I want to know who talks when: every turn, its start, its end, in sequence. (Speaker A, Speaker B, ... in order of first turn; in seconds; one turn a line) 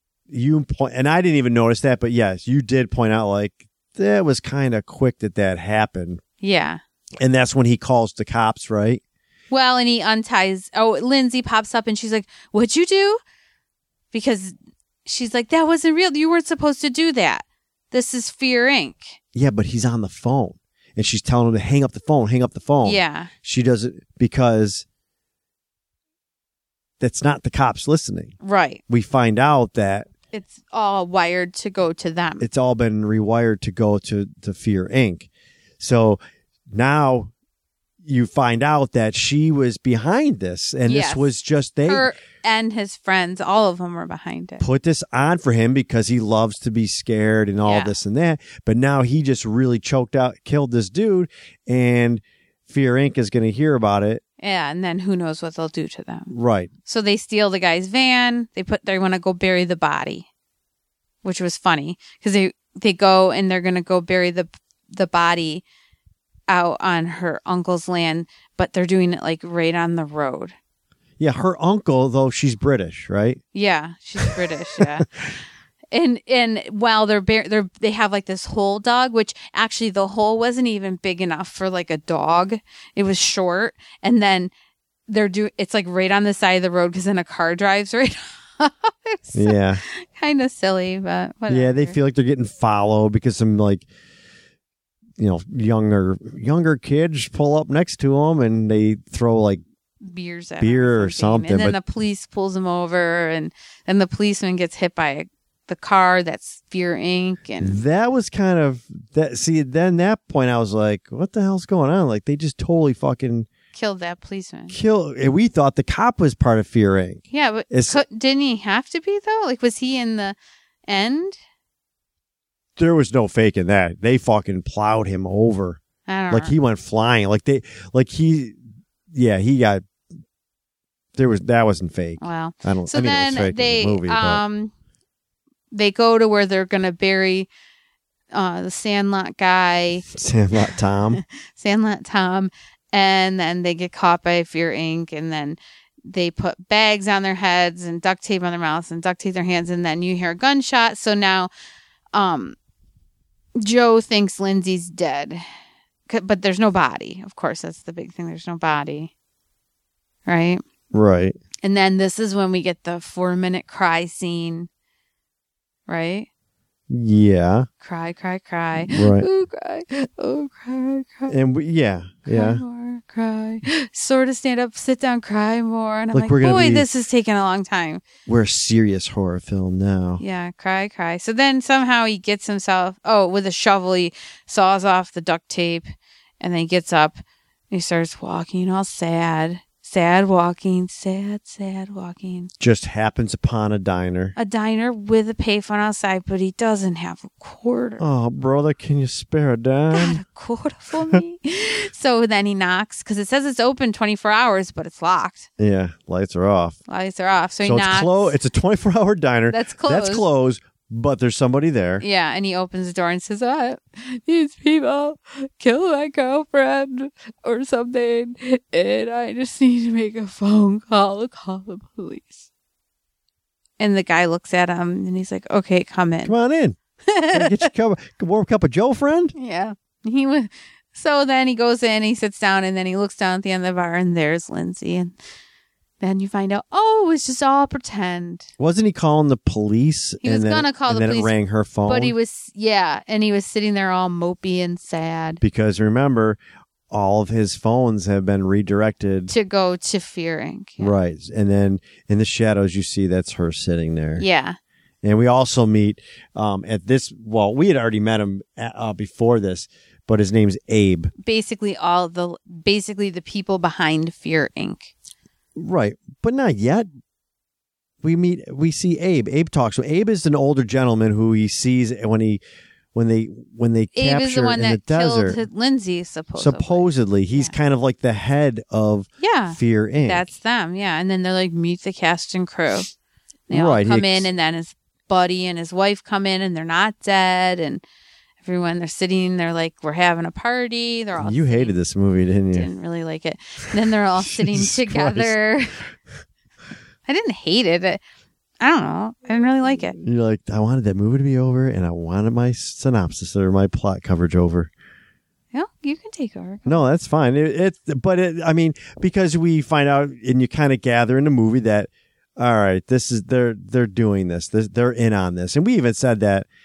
Speaker A: 0.3-6.2
Speaker B: 6.4-6.8
Speaker A: 7.2-9.0
Speaker B: 9.5-13.2
Speaker B: 14.1-14.5
Speaker B: 15.0-19.2
Speaker A: 19.3-24.8
Speaker B: 22.8-23.3
Speaker A: 27.0-28.3
Speaker B: 28.4-28.8
Speaker A: 28.9-30.1
Speaker B: 30.3-32.5
Speaker A: 32.4-35.3
Speaker A: 35.8-36.2
Speaker A: 36.7-37.3
Speaker A: 38.0-42.1
Speaker B: 40.8-41.3
Speaker B: 41.9-44.6
Speaker A: 44.6-54.2
Speaker B: 47.6-47.9
Speaker B: 54.4-56.3
Speaker A: 56.3-56.7
Speaker B: 56.9-60.3
Speaker B: 61.2-65.6
Speaker B: 66.5-70.5
Speaker A: 71.2-73.4
Speaker B: 73.5-75.1
Speaker A: 74.2-74.9
Speaker B: 75.9-84.5
Speaker B: 85.1-92.0
Speaker A: 89.3-89.8
Speaker A: 91.5-93.8
Speaker A: 95.2-99.6
Speaker B: 100.0-107.8
Speaker A: 100.6-101.8
Speaker A: 107.6-113.5
Speaker B: 113.7-114.7
Speaker A: 114.7-118.0
Speaker B: 117.3-120.3
Speaker B: 120.9-121.4
Speaker A: 122.8-128.6
Speaker B: 126.1-126.5
Speaker A: 129.1-129.8
Speaker A: 131.1-134.4
Speaker B: 132.2-134.7
Speaker B: 135.7-137.5
Speaker B: 138.3-140.1
Speaker A: 140.1-141.2
Speaker B: 141.1-151.5
Speaker B: 152.1-152.6
Speaker B: 153.6-155.4
Speaker B: 156.1-159.1
Speaker B: 160.2-160.6
Speaker A: 160.9-161.3
Speaker B: 161.6-164.7
Speaker B: 165.9-166.3
Speaker A: 166.9-167.7
Speaker B: 167.8-171.3
Speaker A: 168.8-169.3
Speaker A: 171.3-172.6
Speaker B: 172.3-178.0
Speaker A: 176.1-176.8
Speaker A: 178.2-180.2
Speaker B: 180.2-185.9
Speaker B: 186.4-192.5
Speaker A: 192.6-194.3
Speaker B: 194.3-198.0
Speaker A: 198.0-200.2
Speaker B: 199.9-205.5
Speaker A: 205.6-206.8
Speaker B: 206.9-208.3
Speaker A: 207.6-212.0
Speaker B: 209.5-210.3
Speaker B: 212.0-222.4
Speaker B: 223.8-226.3
Speaker A: 226.2-226.8
Speaker B: 227.1-227.7
Speaker A: 227.3-229.3
Speaker B: 229.3-235.1
Speaker B: 236.0-238.5
Speaker A: 238.6-242.1
Speaker B: 240.2-241.3
Speaker B: 241.8-245.4
Speaker A: 245.4-246.4
Speaker A: 246.9-249.3
Speaker B: 249.3-250.9
Speaker A: 250.8-254.2
Speaker B: 254.2-254.6
Speaker A: 255.0-261.1
Speaker B: 261.2-264.9
Speaker A: 265.6-266.9
Speaker A: 268.0-272.4
Speaker A: 272.9-275.4
Speaker B: 273.9-277.5
Speaker A: 276.4-280.3
Speaker B: 279.2-282.9
Speaker B: 283.5-287.8
Speaker A: 283.5-284.3
Speaker B: 288.4-291.7
Speaker A: 291.2-292.7
Speaker B: 292.5-295.8
Speaker A: 294.2-295.4
Speaker B: 297.1-298.0
Speaker B: 298.6-299.9
Speaker A: 299.9-304.7
Speaker B: 305.5-306.7
Speaker A: 306.6-316.5